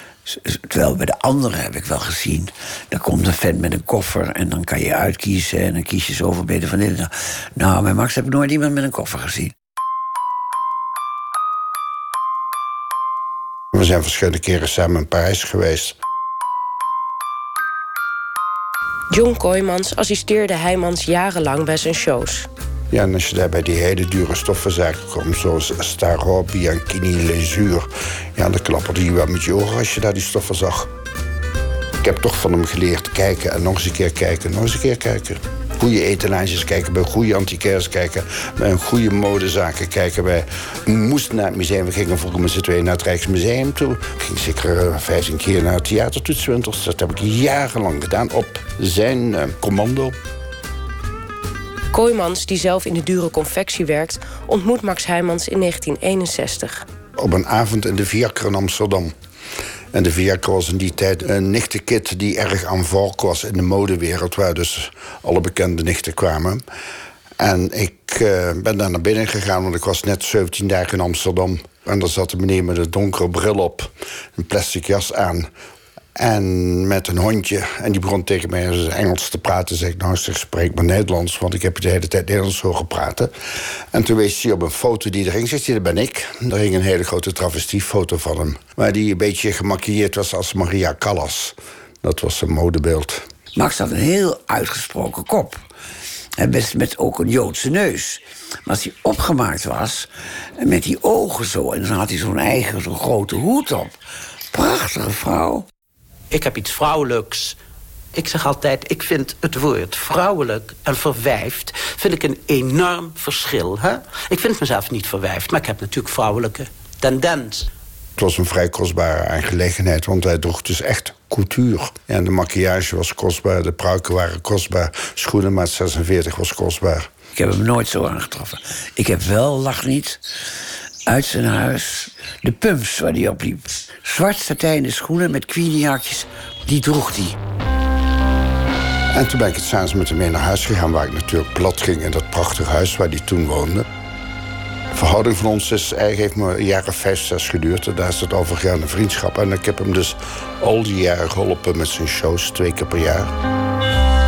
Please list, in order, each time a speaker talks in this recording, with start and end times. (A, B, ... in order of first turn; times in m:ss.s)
0:00.2-0:09.5 A
0:13.7-0:16.0 B
0:19.1-0:22.5 C
0:22.9-0:30.9 B
0:32.0-0:50.1 B
0:51.9-0:56.9 C
0:57.2-0:59.1 B
0:59.9-1:06.6 B
1:07.4-1:15.5 B
1:16.2-1:23.3 B
1:23.9-1:33.2 B
1:33.6-1:35.6 A
1:36.4-1:44.0 A
1:44.5-1:45.7 A
1:46.3-1:47.6 D
1:48.1-1:57.7 D
1:58.2-2:07.1 B
2:07.4-2:10.2 A
2:11.1-2:17.4 A
2:19.1-2:23.9 B
2:24.9-2:33.3 B